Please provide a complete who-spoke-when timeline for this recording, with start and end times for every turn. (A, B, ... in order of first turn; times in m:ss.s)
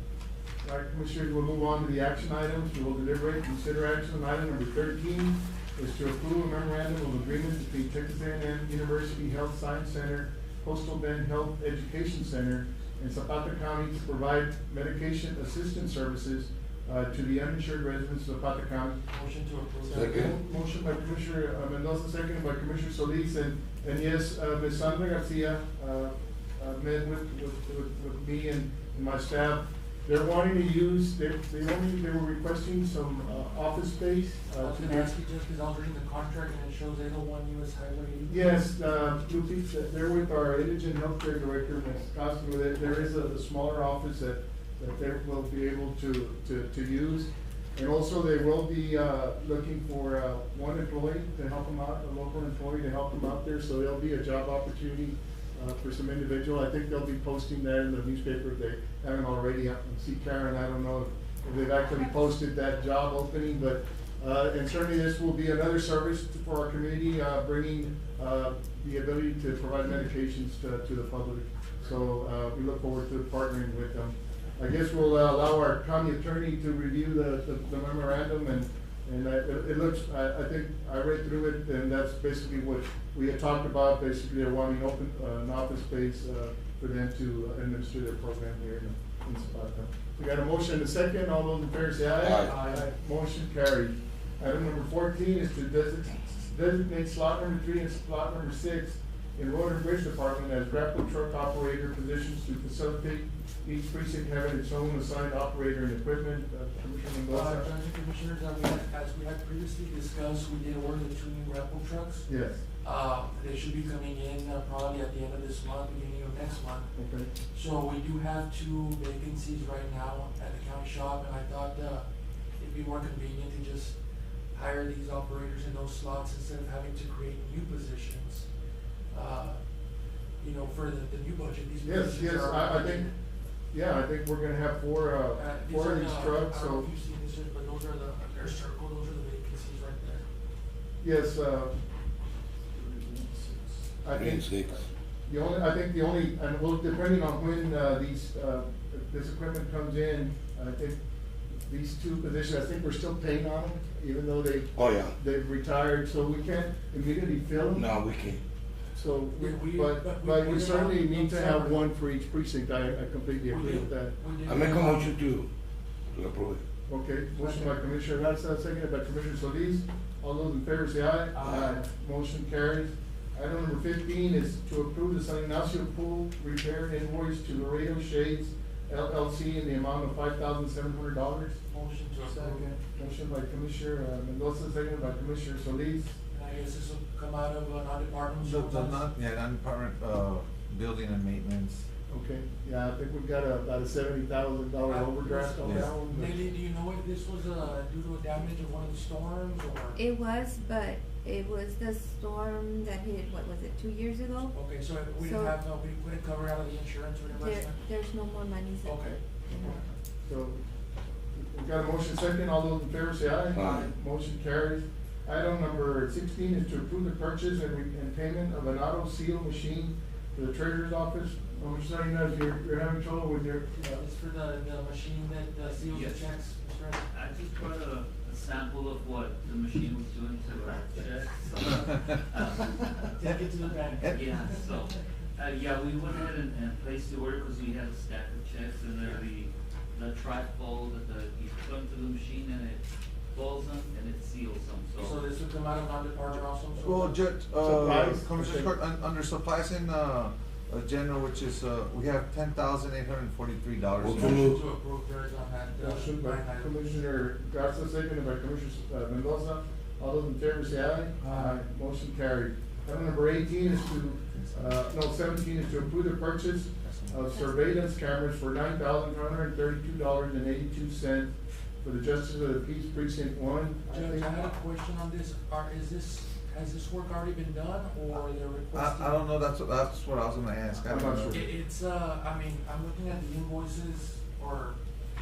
0:00.6-0:19.0 A
0:19.1-0:20.3 B
0:19.8-0:35.1 A
0:19.9-0:20.3 C
0:34.6-0:38.7 B
0:38.3-1:47.7 A
1:32.2-1:32.5 C
1:32.4-1:32.9 B
1:47.3-1:56.9 B
1:52.3-1:52.6 A
1:56.9-1:57.3 A
1:57.5-2:02.0 B
2:02.6-2:04.0 B
2:04.5-2:08.4 B
2:09.1-2:09.6 B
2:10.4-2:13.1 B
2:11.8-2:13.1 A
2:13.7-2:16.9 A
2:15.3-2:20.2 B
2:21.0-2:21.7 A
2:22.7-2:31.0 A
2:24.1-2:24.8 C
2:31.6-2:37.9 A
2:34.8-2:35.1 C
2:37.7-2:38.4 C
2:38.9-2:44.2 A
2:39.3-2:41.9 B
2:43.4-2:45.2 B
2:44.4-2:45.5 C
2:46.1-2:46.6 C
2:46.9-3:01.6 A
2:47.4-2:47.8 B
2:51.3-2:51.7 B
3:01.7-3:02.7 B
3:02.2-3:06.2 A
3:06.3-3:09.0 B
3:08.4-3:11.8 D
3:12.1-3:16.4 A
3:14.9-3:20.0 B
3:20.0-3:24.5 E
3:24.5-3:27.8 B
3:25.1-3:25.6 E
3:27.3-3:29.1 E
3:28.8-3:29.8 B
3:30.2-3:30.6 A
3:31.4-3:44.0 A
3:33.5-3:33.9 C
3:43.8-3:47.1 B
3:45.8-3:46.4 F
3:47.1-3:53.1 F
3:52.4-3:55.0 B
3:54.1-4:02.8 F
4:03.3-4:05.2 F
4:05.0-4:07.2 B
4:06.8-4:14.4 D
4:07.6-4:08.7 A
4:14.0-4:14.6 C
4:14.0-4:17.0 B
4:15.8-4:34.5 A
4:21.2-4:21.6 B
4:26.8-4:27.2 D
4:33.9-4:39.3 B
4:38.7-4:41.5 D
4:40.9-4:41.4 A
4:41.3-4:44.8 B